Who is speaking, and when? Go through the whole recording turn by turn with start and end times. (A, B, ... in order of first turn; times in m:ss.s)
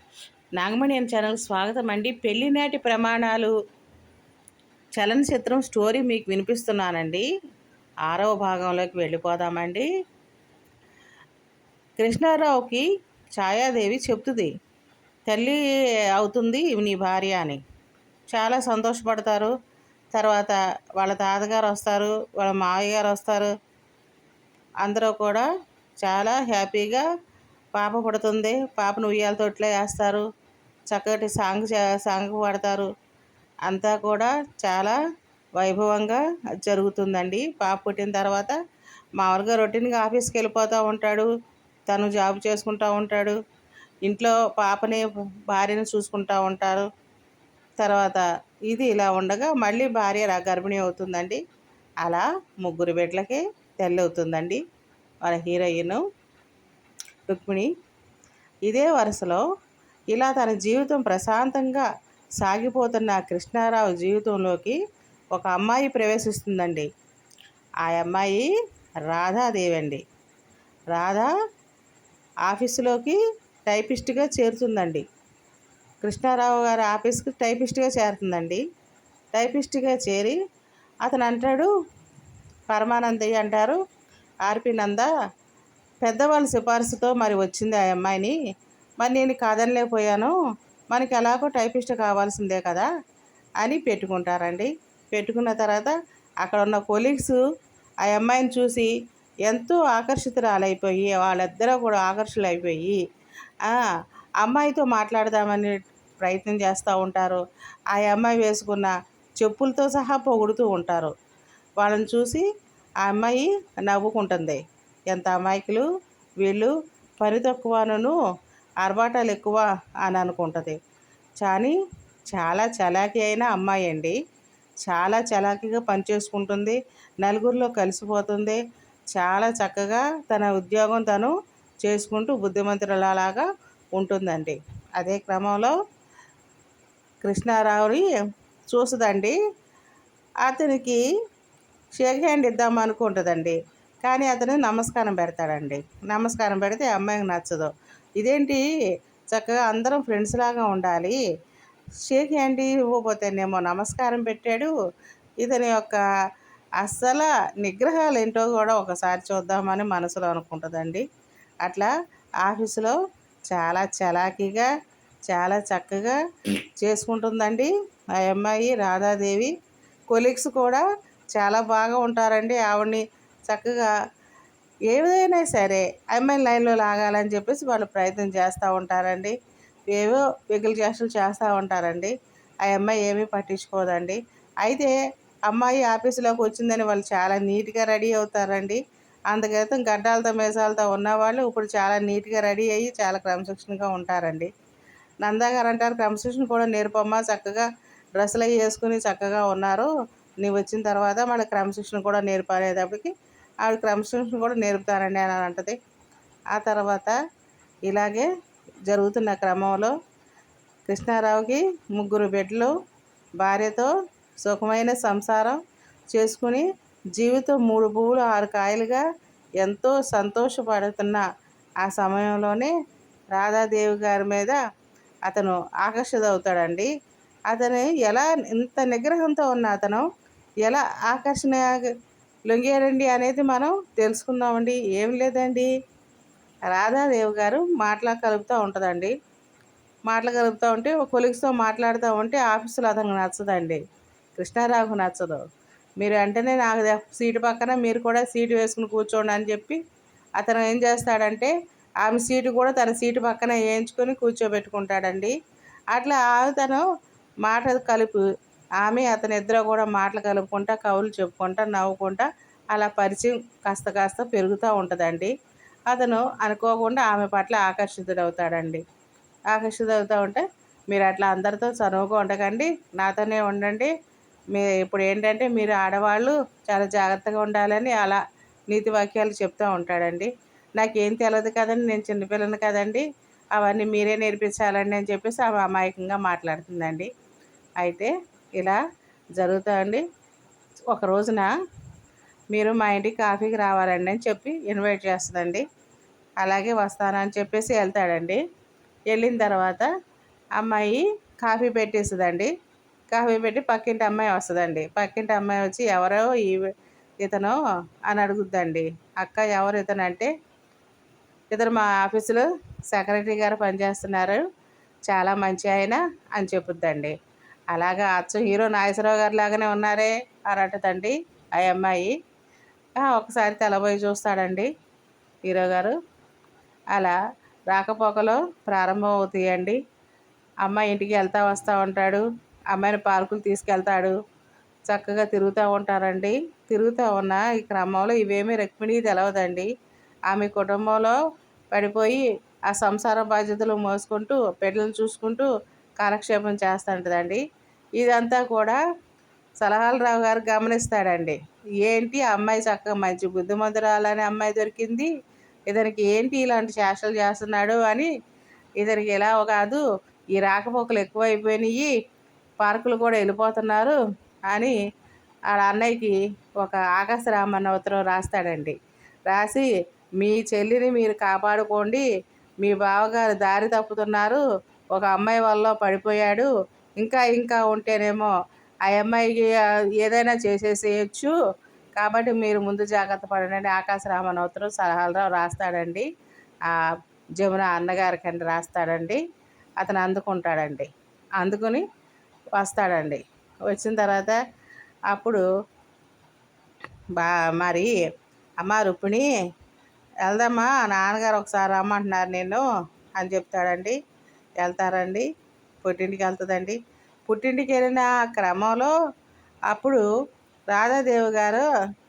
0:00.6-0:03.5 A
0:05.0-0:07.3 A
0:08.1-0:09.9 A
0:12.0-0:14.5 A
0:15.3-0:15.6 A
0:16.1-0:17.6 A
0:18.3-0:19.5 A
0:20.1-0:23.5 A
0:24.8-0:25.4 A
0:26.0-0:27.0 A
0:27.7-0:30.2 A
0:30.9-0:32.9 A
0:33.7-0:35.0 A
0:35.6-0:38.5 A
0:39.2-0:41.3 A
0:41.9-0:43.4 A
0:44.0-0:46.9 A
0:47.8-0:51.4 A
0:52.0-0:54.6 A
0:55.2-0:56.0 A
0:57.3-0:57.7 A
0:58.7-0:59.4 A
1:00.1-1:01.9 A
1:02.4-1:04.8 A
1:05.3-1:06.9 A
1:07.8-1:08.5 A
1:09.1-1:10.0 A
1:10.9-1:11.3 A
1:12.4-1:15.0 A
1:16.0-1:18.6 A
1:19.3-1:20.4 A
1:21.0-1:21.7 A
1:22.7-1:23.8 A
1:24.4-1:25.1 A
1:26.0-1:28.3 A
1:29.0-1:30.3 A
1:30.9-1:32.9 A
1:33.6-1:37.4 A
1:38.0-1:38.9 A
1:39.5-1:43.0 A
1:43.6-1:43.9 A
1:44.4-1:51.1 A
1:51.8-1:52.4 A
1:53.0-1:55.8 A
1:56.4-1:58.1 A
1:58.8-2:00.8 A
2:01.4-2:01.7 A
2:02.3-2:04.1 A
2:04.8-2:08.6 A
2:09.1-2:13.4 A
2:14.0-2:15.7 A
2:17.2-2:18.0 A
2:18.7-2:19.3 A
2:20.4-2:21.0 A
2:22.0-2:28.6 A
2:29.3-2:31.2 A
2:32.0-2:34.7 A
2:35.4-2:36.0 A
2:36.8-2:41.0 A
2:41.6-2:41.9 A
2:42.4-2:42.9 A
2:43.5-2:44.7 A
2:45.3-2:46.2 A
2:46.8-2:49.5 A
2:50.1-2:50.8 A
2:51.3-2:53.9 A
2:54.9-2:59.3 A
2:59.9-3:04.9 A
3:05.5-3:08.8 A
3:09.3-3:14.5 A
3:15.2-3:19.9 A
3:20.4-3:23.1 A
3:23.6-3:25.8 A
3:26.5-3:27.2 A
3:27.9-3:28.3 A
3:28.9-3:29.9 A
3:30.9-3:32.7 A
3:33.4-3:33.9 A
3:34.4-3:35.6 A
3:36.1-3:36.6 A
3:37.2-3:39.0 A
3:39.6-3:41.2 A
3:41.8-3:42.7 A
3:43.3-3:44.6 A
3:45.3-3:46.9 A
3:47.5-3:50.0 A
3:50.6-3:51.9 A
3:52.5-3:55.7 A
3:56.7-3:59.1 A
4:00.1-4:03.8 A
4:04.4-4:05.4 A
4:06.0-4:09.8 A
4:10.4-4:11.5 A
4:12.0-4:15.3 A
4:15.9-4:16.8 A
4:17.4-4:18.2 A
4:18.8-4:25.3 A
4:25.9-4:28.8 A
4:29.5-4:33.9 A
4:34.5-4:43.0 A
4:43.6-4:47.1 A
4:47.8-4:48.8 A
4:49.4-4:50.0 A
4:50.9-4:51.5 A
4:52.5-4:55.6 A
4:56.4-4:58.4 A
4:59.1-4:59.9 A
5:00.6-5:02.5 A
5:03.1-5:06.7 A
5:07.2-5:10.3 A
5:11.5-5:14.4 A
5:15.1-5:17.1 A
5:17.7-5:22.1 A
5:23.0-5:24.7 A
5:25.4-5:25.9 A
5:27.7-5:29.8 A
5:30.6-5:34.2 A
5:34.9-5:39.7 A
5:40.3-5:41.2 A
5:41.7-5:47.4 A
5:48.0-5:48.8 A
5:49.6-5:55.1 A
5:55.7-5:58.1 A
5:58.8-5:59.8 A
6:00.3-6:01.9 A
6:02.6-6:04.0 A
6:04.5-6:04.7 A
6:05.5-6:08.7 A
6:09.3-6:09.7 A
6:10.2-6:12.0 A
6:12.6-6:14.4 A
6:14.9-6:16.5 A
6:17.0-6:18.3 A
6:18.9-6:21.3 A
6:22.0-6:26.1 A
6:26.7-6:29.2 A
6:29.8-6:30.9 A
6:31.4-6:31.8 A
6:32.6-6:34.4 A
6:35.1-6:35.4 A
6:37.2-6:38.0 A
6:38.6-6:39.3 A
6:40.2-6:42.6 A
6:43.2-6:44.0 A
6:44.6-6:45.3 A
6:45.8-6:48.9 A
6:49.7-6:50.0 A
6:50.7-6:51.6 A